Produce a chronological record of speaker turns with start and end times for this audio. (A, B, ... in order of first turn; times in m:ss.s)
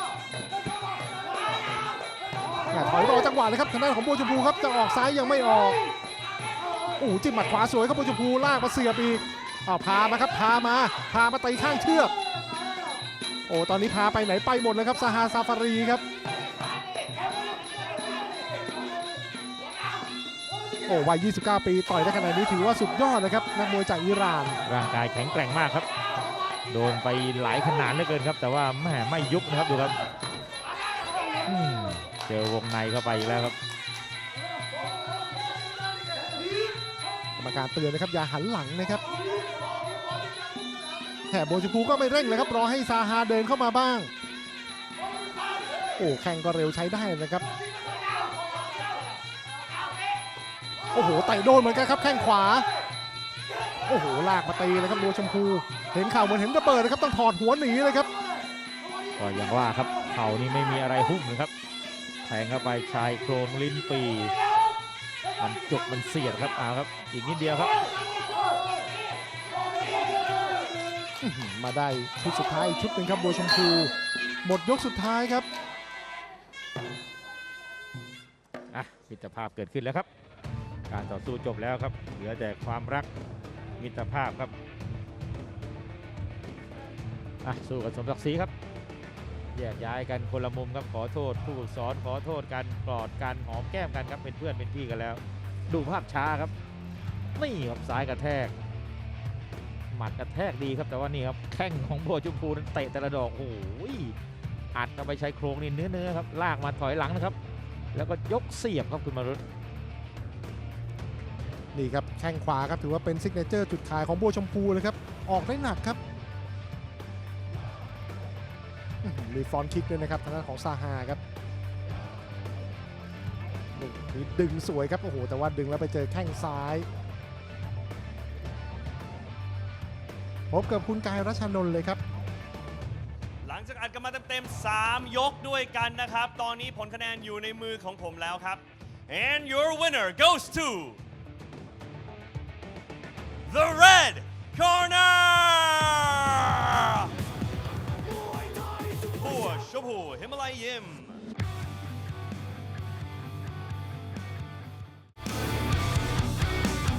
0:02.7-0:05.8 A
0:07.0-0:12.1 A
0:13.5-0:16.0 A
0:20.9-0:24.6 A
0:24.6-0:25.9 B
0:26.7-0:30.0 B
0:31.5-0:33.6 B
0:37.4-0:39.0 A
0:41.3-0:44.1 A
0:46.0-0:47.4 A
0:50.9-0:52.7 A
0:53.9-0:58.1 A
0:59.2-1:01.5 B
1:02.2-1:04.3 B
1:05.4-1:07.7 B
1:11.2-1:13.9 A
1:14.4-1:15.5 A
1:18.7-1:20.1 B
1:20.9-1:23.1 B
1:23.8-1:24.5 B
1:27.4-1:28.5 B
1:29.5-1:36.5 B
1:37.4-1:38.5 B
1:39.9-1:44.2 B
1:44.7-1:47.4 B
1:47.9-1:49.4 B
1:51.7-1:56.0 A
1:59.0-2:01.2 A
2:03.8-2:06.9 A
2:10.5-2:12.0 A
2:13.4-2:21.0 C
2:23.5-2:27.1 C
2:29.2-2:31.2 C